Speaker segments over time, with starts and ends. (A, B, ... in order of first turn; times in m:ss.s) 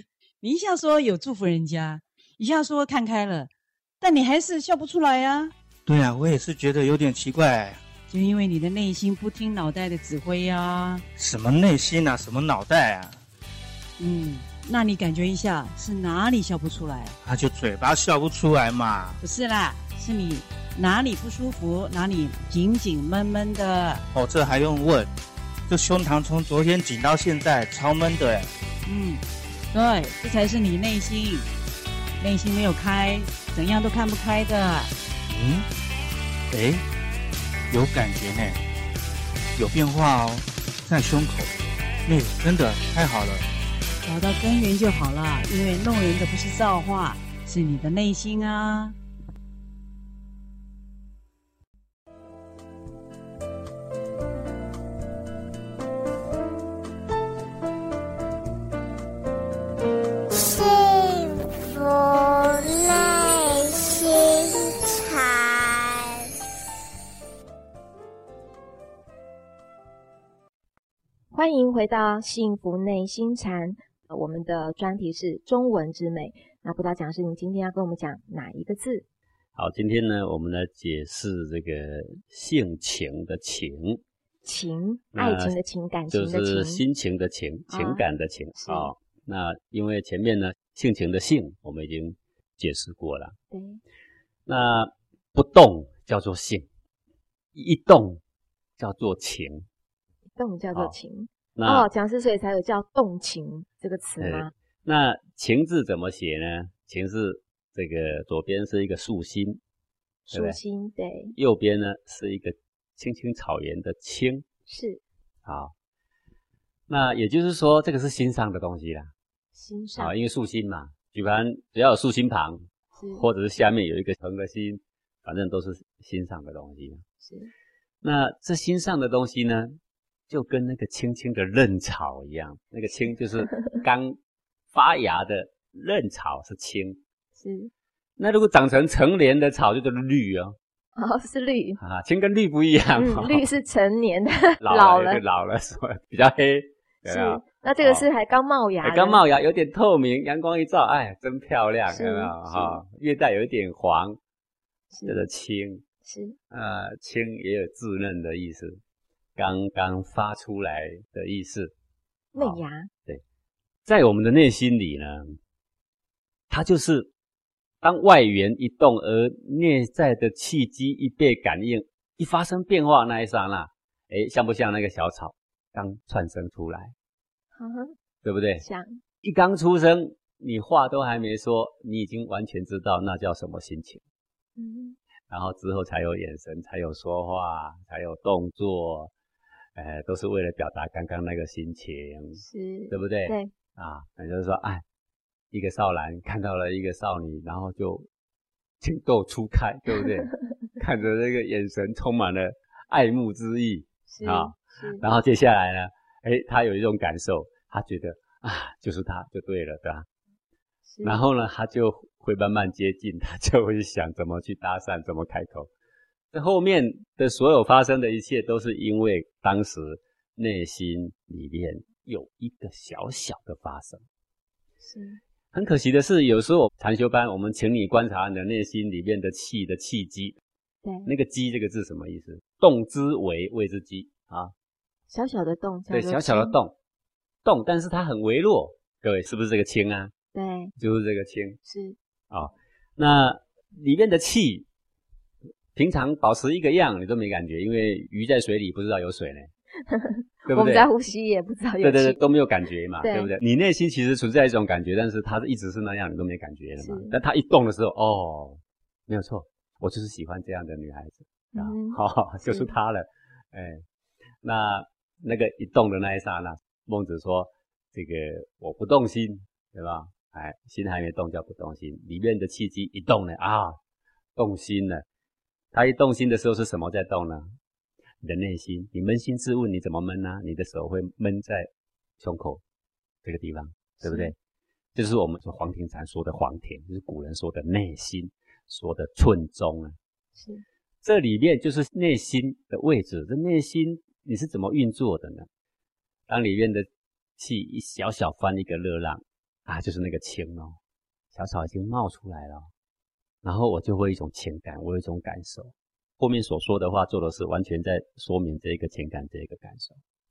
0:00.4-0:03.5 A
0:04.0-0:05.5 A
0:05.8-0:07.8 B
0:08.1-0:11.0 A
0:11.2-0:13.2 B
0:14.0-0:17.1 A
0:17.2-0:19.2 B
0:19.2-0:24.0 A
0:24.1-0:25.1 B
0:25.7-0:28.5 B
0:28.8-0:31.4 A
0:32.2-0:34.9 A
0:35.3-0:35.6 B
0:36.5-0:36.8 B
0:37.7-0:38.6 B
0:39.6-0:43.4 B
0:44.0-0:49.0 A
1:00.3-1:06.3 C
1:11.3-1:19.0 D
1:19.6-1:24.0 E
1:24.4-1:26.8 D
1:25.1-1:25.6 E
1:26.1-1:33.4 E
1:27.7-1:28.0 D
1:28.6-1:28.9 D
1:33.5-1:33.8 D
1:34.5-1:36.7 E
1:37.5-1:38.2 E
1:38.8-1:39.6 E
1:40.4-1:44.5 D
1:41.6-1:41.9 E
1:44.2-1:49.6 E
1:50.3-1:51.3 D
1:50.3-1:50.6 E
1:51.3-1:54.4 E
1:54.7-1:55.0 D
1:55.4-1:55.7 E
1:56.9-1:59.1 E
1:59.5-2:00.1 D
2:00.0-2:07.0 E
2:02.9-2:03.2 D
2:07.2-2:07.5 D
2:08.0-2:09.8 E
2:10.3-2:14.2 E
2:13.5-2:13.8 D
2:14.7-2:17.0 E
2:17.4-2:17.7 D
2:18.2-2:20.6 E
2:21.0-2:21.8 D
2:21.8-2:23.4 E
2:23.0-2:25.2 D
2:24.6-2:28.0 E
2:27.0-2:29.2 D
2:28.8-2:34.2 E
2:31.9-2:32.8 D
2:34.9-2:35.2 D
2:35.0-2:35.8 E
2:36.0-2:36.4 D
2:36.5-2:38.8 E
2:39.4-2:41.7 E
2:42.3-2:42.9 D
2:42.4-2:43.2 E
2:43.8-2:45.4 E
2:46.5-2:47.1 E
2:47.8-2:56.9 E
2:57.5-2:57.9 D
2:58.2-2:58.6 E
2:58.6-2:59.0 D
2:59.2-3:04.0 E
3:04.6-3:05.0 D
3:05.3-3:09.1 E
3:09.8-3:14.8 E
3:12.4-3:13.5 D
3:15.5-3:18.1 E
3:18.8-3:30.0 E
3:24.1-3:25.0 D
3:30.8-3:31.2 D
3:31.0-3:35.7 E
3:36.3-3:44.0 E
3:44.8-3:45.2 D
3:45.5-3:50.4 E
3:50.8-3:51.1 D
3:51.0-3:54.5 E
3:55.1-3:56.6 D
3:55.9-3:56.7 E
3:57.4-4:00.1 E
4:00.3-4:00.7 D
4:00.8-4:01.6 E
4:01.6-4:02.0 D
4:02.3-4:04.7 E
4:05.7-4:09.5 E
4:09.9-4:12.2 D
4:10.5-4:10.9 E
4:11.8-4:23.8 E
4:13.0-4:13.3 D
4:16.8-4:17.2 D
4:21.5-4:22.7 D
4:24.4-4:33.8 E
4:34.4-4:35.0 E
4:35.7-4:37.5 E
4:38.2-4:42.6 E
4:43.2-4:44.3 E
4:44.0-4:44.3 D
4:44.9-4:50.0 E
4:50.4-4:50.6 D
4:51.0-4:55.5 E
4:56.3-4:56.8 E
4:57.4-5:00.8 E
5:01.3-5:02.7 E
5:03.4-5:10.0 E